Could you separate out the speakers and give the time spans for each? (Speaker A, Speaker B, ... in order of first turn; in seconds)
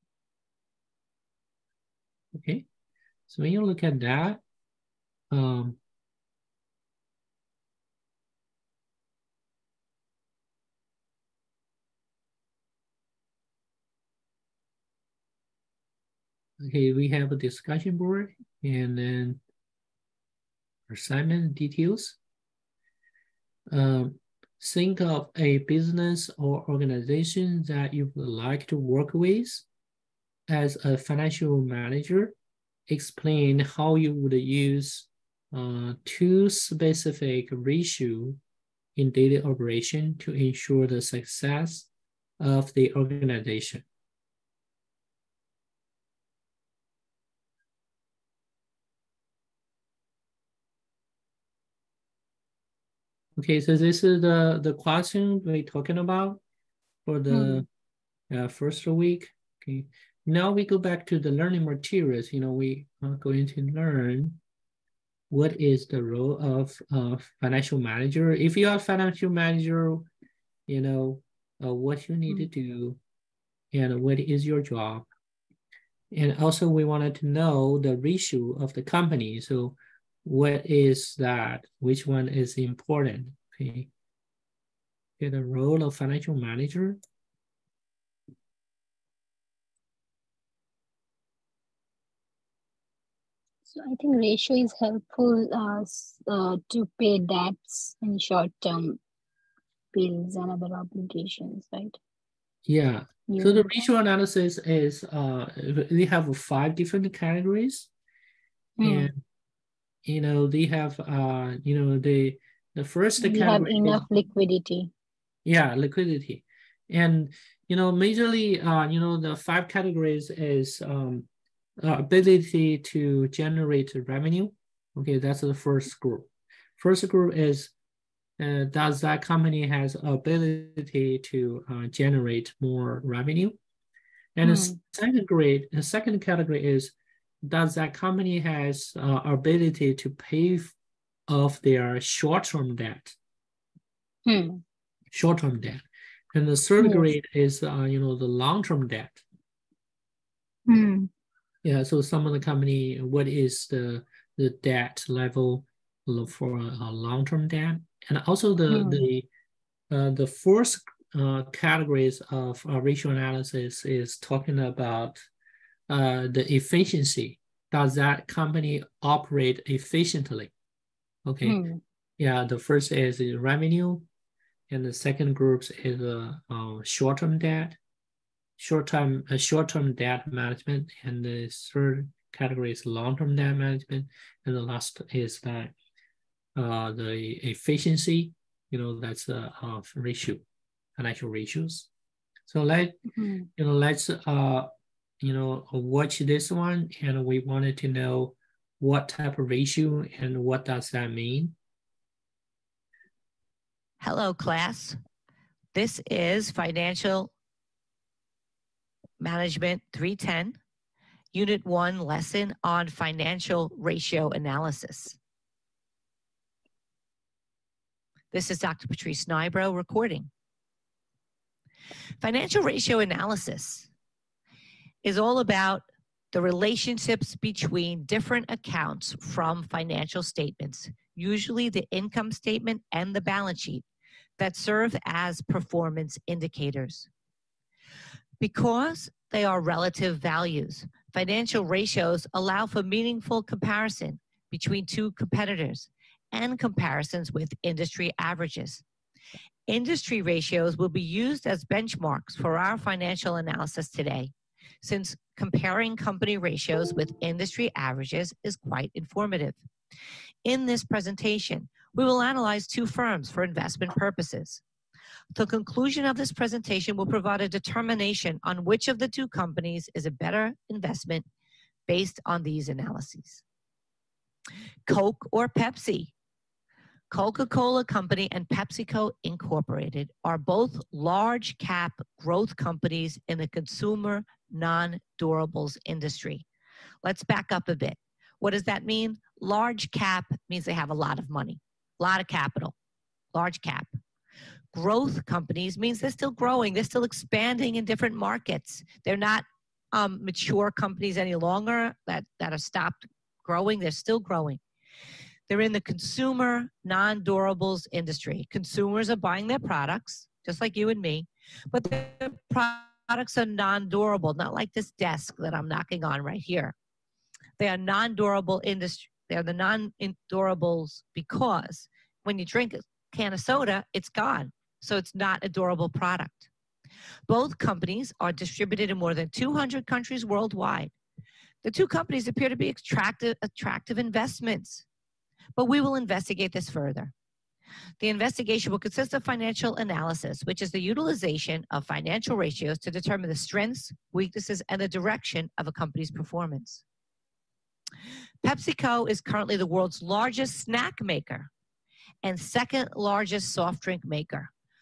Speaker A: 2.3-2.7, 3.3-4.4, 5.3-5.8, 16.6-19.4, 20.9-22.2, 23.7-29.7, 30.5-32.4, 32.9-38.4, 39.0-41.9, 42.4-43.9, 53.4-56.4, 57.1-57.7, 58.3-64.4, 65.3-70.1, 70.7-73.0, 73.7-75.1, 76.1-83.9, 85.2-87.0, 102.7-107.9, 108.8-109.2, 110.1-114.1, 115.5-121.3, 121.8-127.7, 128.4-133.6, 134.4-140.8, 141.3-143.2, 145.1-149.2, 151.6-159.3, 159.9-165.2, 165.9-170.5, 171.3-171.6, 172.2-174.1, 174.7-177.8, 178.6-185.7, 186.6-190.4, 191.0-191.9, 192.5-193.0, 193.6-194.7, 195.2-201.6
Speaker B: 57.3-57.6, 93.7-99.0, 99.9-102.0, 103.3-103.7, 108.8-109.1, 113.2-114.9, 134.4-134.8, 144.3-144.6, 146.8-147.1, 150.7-151.1, 158.7-159.1, 171.4-171.8, 193.1-193.5
Speaker C: 204.0-205.0, 205.7-207.3, 209.2-210.6, 211.3-215.2, 218.3-220.3, 222.2-223.9, 225.0-233.8, 234.4-237.1, 238.4-248.8, 249.7-259.6, 260.4-264.6, 265.3-271.3, 271.9-273.4, 274.9-276.1, 277.1-286.4, 287.0-292.7, 293.3-293.9, 294.7-304.6, 305.5-316.8, 317.6-326.5, 327.3-330.9, 331.6-334.9, 335.6-337.1, 338.0-346.8, 348.4-351.5, 352.2-354.5